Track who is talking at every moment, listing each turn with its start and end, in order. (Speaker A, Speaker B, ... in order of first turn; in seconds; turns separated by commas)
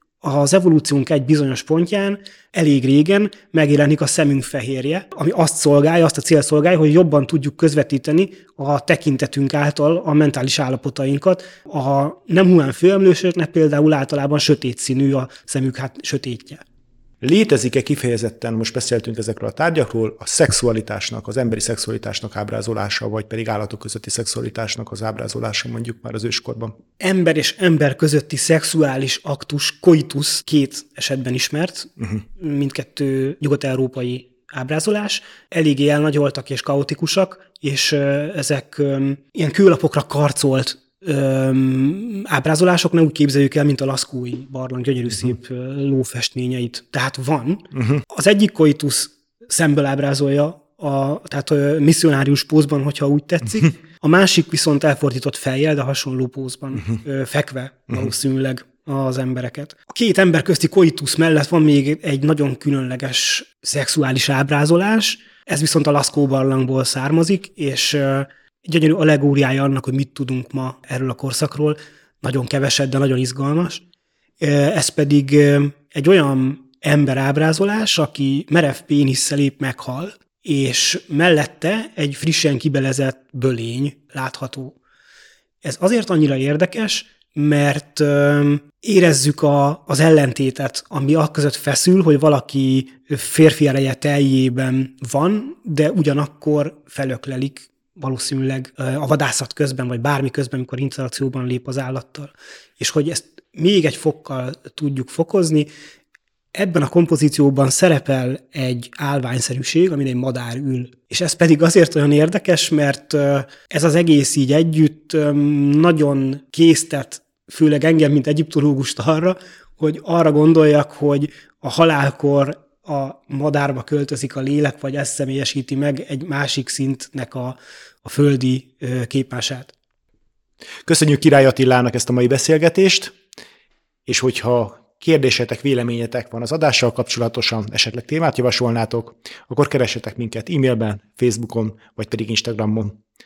Speaker A: 0.2-16.6, Speaker B: 17.2-26.7, Speaker A: 27.0-73.8, Speaker B: 47.7-48.0, Speaker A: 74.4-84.8, Speaker A: 85.6-105.7, Speaker A: 106.5-129.7, Speaker B: 130.8-133.2, Speaker B: 134.1-143.0